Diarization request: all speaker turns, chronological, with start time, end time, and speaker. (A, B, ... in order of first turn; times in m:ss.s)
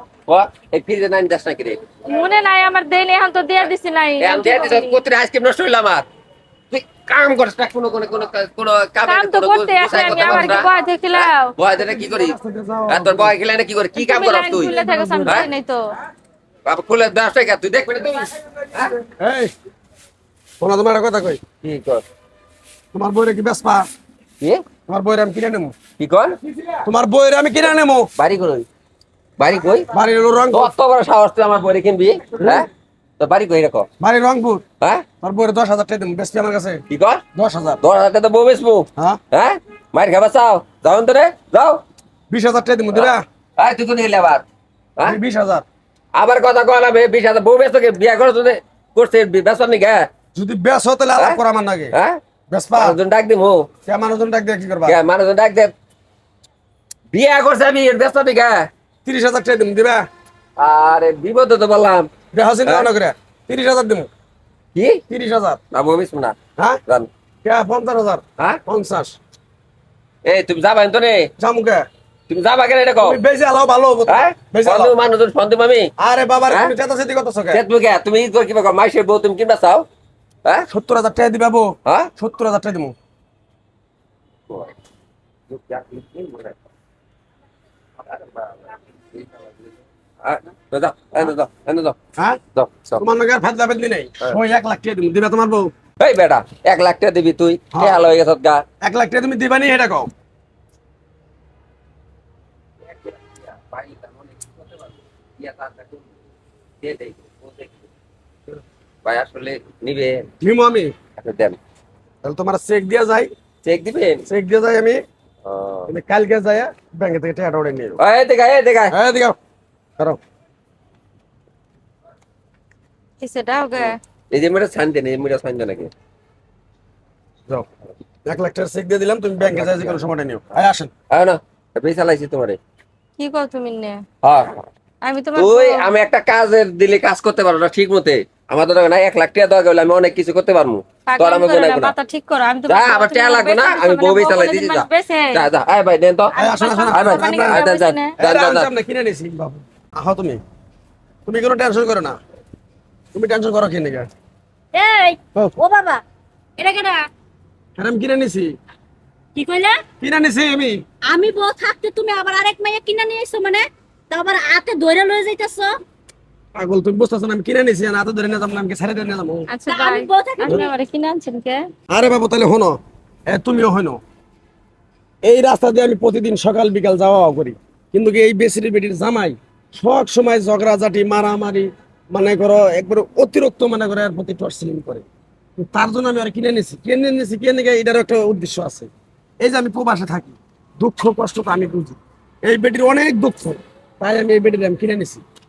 0:00.3-0:01.8 A
0:02.0-0:05.0 B
0:04.2-0:06.1 A
0:06.7-0:12.4 A
0:09.0-0:11.5 B
0:11.8-0:13.3 C
0:12.9-0:15.5 A
0:14.0-0:15.8 B
0:14.7-0:15.5 C
0:16.6-0:19.0 A
0:19.2-0:19.5 C
0:20.6-0:21.4 C
0:21.6-0:22.0 A
0:22.9-0:23.8 C
0:24.9-0:25.7 C
0:26.0-0:26.4 A
0:26.8-0:28.1 C
0:28.2-0:28.6 A
0:29.4-0:29.9 A
0:29.9-0:30.7 C
0:30.5-0:32.7 A
0:33.2-0:33.9 A
0:34.0-0:34.6 C
0:34.8-0:35.0 A
0:35.2-0:36.8 C
0:36.9-0:37.2 A
0:37.3-0:37.8 C
0:37.8-0:41.8 A
0:42.3-0:43.2 C
0:42.9-0:44.4 A
0:45.0-0:45.6 C
0:46.1-0:50.1 A
0:50.3-0:51.9 C
0:51.9-0:52.2 A
0:52.5-0:53.0 C
0:52.8-0:53.7 A
0:53.8-0:55.0 C
0:54.8-0:55.7 A
0:57.1-0:58.7 A
0:59.0-1:00.0 C
1:00.6-1:02.1 A
1:02.3-1:04.1 C
1:04.7-1:05.0 A
1:05.1-1:05.6 C
1:05.7-1:06.4 A
1:07.4-1:09.2 C
1:10.2-1:11.3 A
1:11.4-1:11.8 C
1:12.3-1:13.2 A
1:13.0-1:14.9 C
1:14.1-1:15.9 A
1:16.0-1:17.6 C
1:16.5-1:16.7 A
1:17.5-1:19.9 A
1:20.7-1:22.9 C
1:25.5-1:26.6 A
1:28.0-1:29.7 A
1:30.2-1:32.0 A
1:32.5-1:33.0 A
1:33.0-1:35.7 C
1:36.0-1:38.6 A
1:37.7-1:38.1 C
1:38.8-1:40.1 C
1:42.9-1:46.1 A
1:46.8-1:47.8 A
1:49.0-1:50.3 A
1:50.4-1:50.9 C
1:51.2-1:51.6 A
1:52.2-1:53.3 C
1:53.6-1:54.3 A
1:54.3-1:55.0 C
1:55.4-1:55.9 A
1:55.9-1:58.0 C
1:58.0-1:58.9 A
1:58.9-1:59.4 C
2:03.2-2:04.0 B
2:03.7-2:05.9 A
2:08.2-2:10.9 C
2:09.4-2:10.0 A
2:11.1-2:12.6 A
2:13.2-2:14.0 B
2:14.2-2:14.5 A
2:15.0-2:15.9 B
2:15.4-2:22.0 A
2:21.1-2:25.4 B
2:22.7-2:26.4 A
2:26.4-2:27.6 C
2:26.4-2:28.1 B
2:26.9-2:28.7 A
2:28.2-2:30.4 C
2:31.2-2:32.2 C
2:33.1-2:34.1 C
2:34.7-2:36.0 D
2:36.6-2:37.0 D
2:37.8-2:38.5 C
2:39.3-2:39.8 D
2:40.0-2:40.8 C
2:41.1-2:45.7 D
2:46.6-2:49.5 C
2:49.5-2:51.6 B
2:49.7-2:50.7 D
2:51.9-2:52.8 C
2:53.3-2:54.0 C
2:55.2-3:05.0 C
3:05.6-3:08.9 C
3:09.4-3:15.2 C